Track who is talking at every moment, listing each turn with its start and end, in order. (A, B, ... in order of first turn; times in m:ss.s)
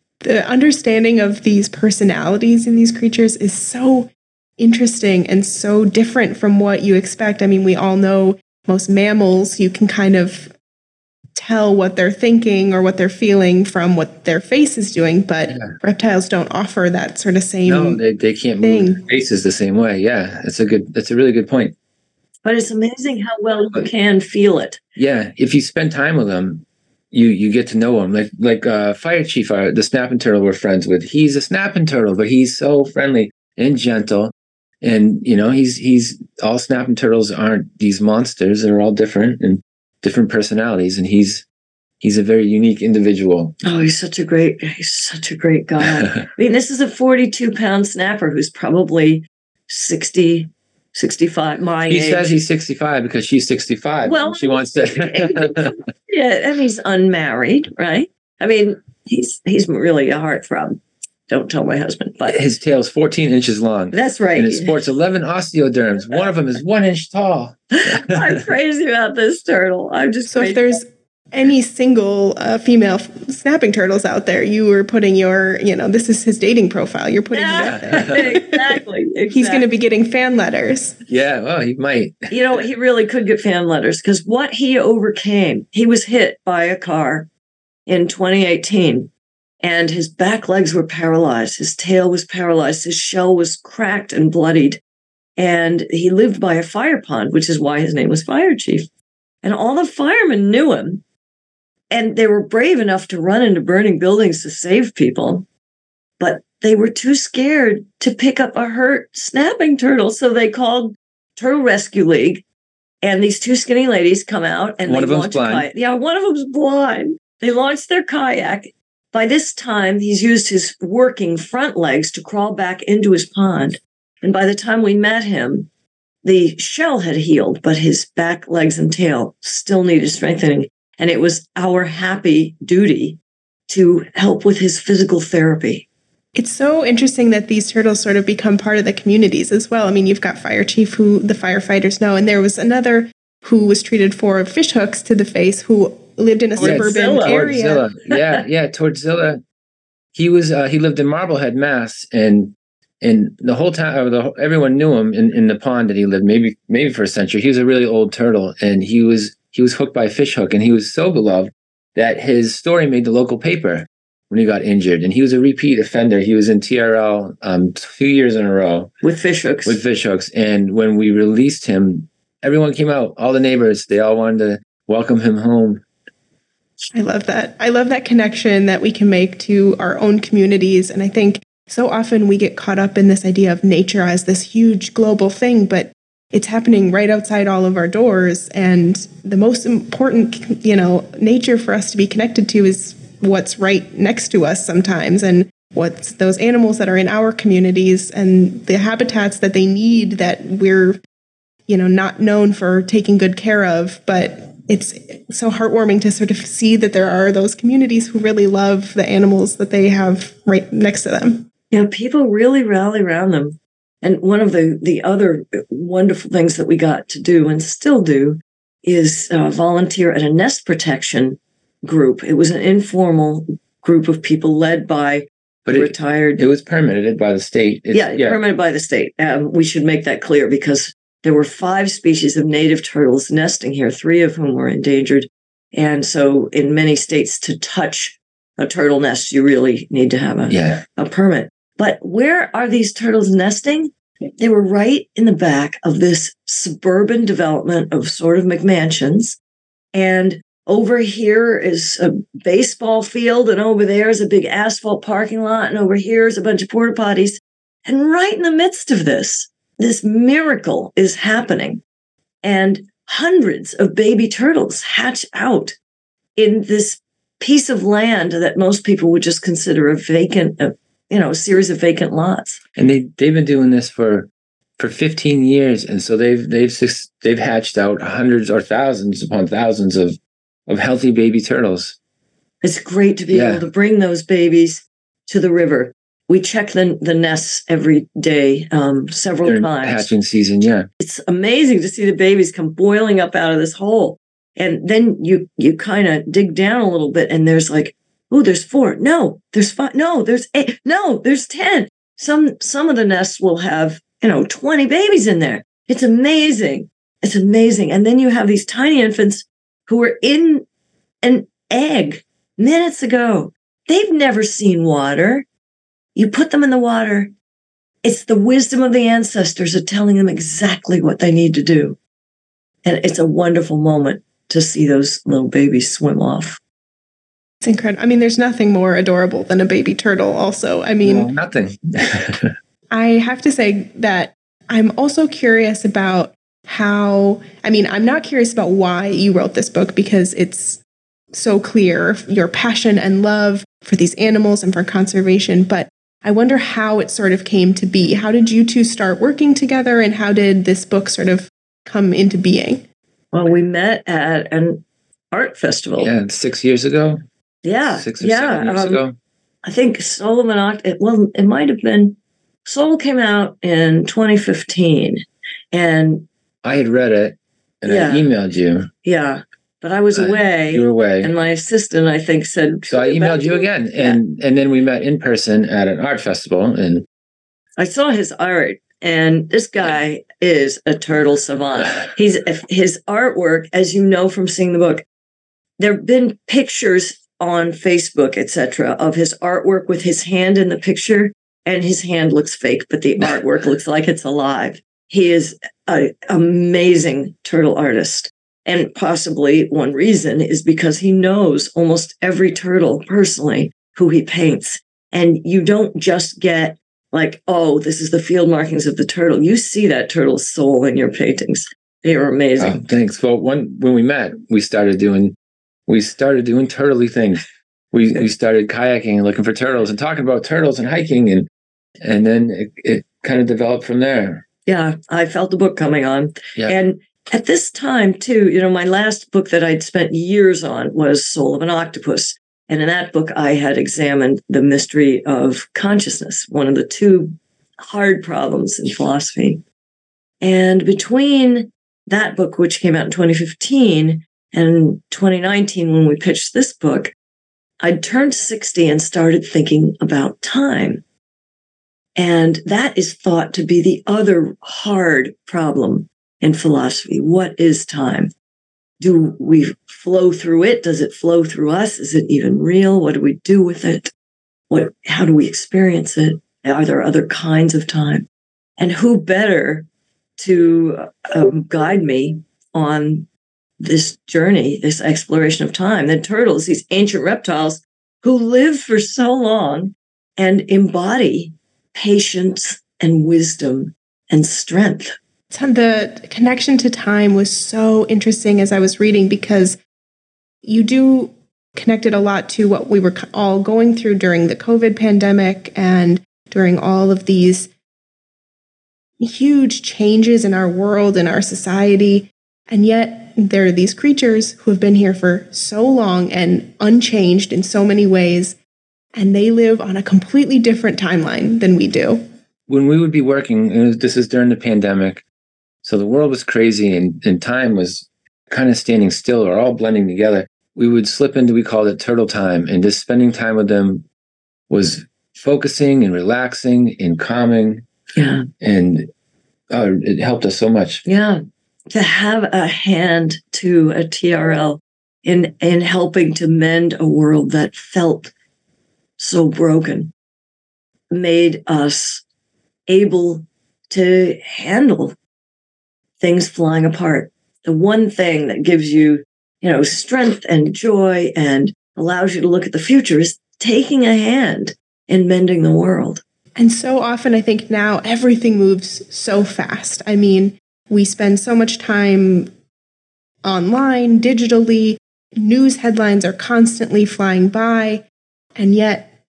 0:00.2-0:10.5 A
0:11.3-0:18.0 A
0:17.6-0:21.8 B
0:18.6-0:19.0 A
0:22.4-0:24.8 C
0:25.0-0:41.4 B
0:42.0-0:43.6 B
0:43.6-0:52.4 C
0:51.9-0:55.8 B
0:54.0-1:02.4 C
1:02.3-1:08.4 B
1:03.9-1:04.8 C
1:07.7-1:10.8 C
1:10.3-1:18.8 A
1:17.3-1:19.7 C
1:17.7-1:18.1 B
1:19.3-1:21.0 A
1:21.1-1:22.3 B
1:22.3-1:27.3 C
1:27.9-1:29.1 C
1:29.6-1:34.8 C
1:35.4-1:38.9 C
1:39.4-1:41.0 C
1:41.9-1:45.4 C
1:46.2-1:52.4 C
1:53.0-2:05.7 C
1:54.9-1:55.6 B
2:06.2-2:15.8 C
2:16.3-2:27.8 A
2:26.6-2:27.4 C
2:26.6-2:29.4 B
2:30.1-2:48.9 B
2:49.0-2:49.8 C
2:49.6-2:55.8 B
2:56.9-3:21.0 A
3:21.7-3:31.5 A
3:31.7-3:46.4 C
3:45.6-3:48.4 B
3:47.9-4:09.4 C
4:00.5-4:00.8 B
4:09.9-4:21.8 C
4:22.4-4:25.8 C
4:26.4-4:32.6 C
4:32.8-4:42.0 B
4:42.6-4:50.1 C
4:43.3-4:43.6 B
4:49.4-4:50.9 B
4:51.0-5:10.6 C
5:11.2-5:15.5 C
5:16.2-5:17.3 C
5:18.0-5:22.0 C
5:22.8-5:26.6 C
5:27.6-5:31.3 A
5:31.0-5:32.5 B
5:32.9-5:40.8 A
5:41.3-5:52.8 A
5:53.3-5:56.1 C
5:56.0-5:57.2 B
5:57.6-5:59.0 C
5:58.0-5:59.2 B
5:59.6-6:06.2 C
6:06.6-6:08.9 B
6:07.9-6:08.2 C
6:09.0-6:14.2 C
6:10.1-6:11.3 B
6:12.9-6:17.0 B
6:17.8-6:25.0 C
6:25.8-6:52.8 C
6:52.6-6:55.4 B
6:55.9-7:01.5 B
7:02.0-7:04.4 B
7:04.6-7:19.6 C
7:20.4-7:27.1 C
7:27.8-7:31.0 C
7:32.2-7:38.3 C
7:39.0-7:44.1 C
7:44.7-7:48.2 C
7:48.8-7:49.9 C
7:50.4-7:53.3 C
7:53.8-8:05.1 C
8:05.5-8:09.8 A
8:10.6-8:17.7 A
8:19.2-8:28.6 A
8:29.1-8:32.2 A
8:32.7-8:35.2 B
8:35.8-8:44.0 B
8:44.7-8:47.8 B
8:48.1-8:48.5 C
8:48.6-8:49.1 B
8:49.7-8:51.0 B
8:51.0-8:58.3 C
8:59.2-9:00.1 C
9:01.1-9:02.2 C
9:02.9-9:05.2 C
9:06.2-9:16.2 C
9:16.6-9:22.5 A
9:23.4-9:28.0 A
9:28.6-9:29.1 A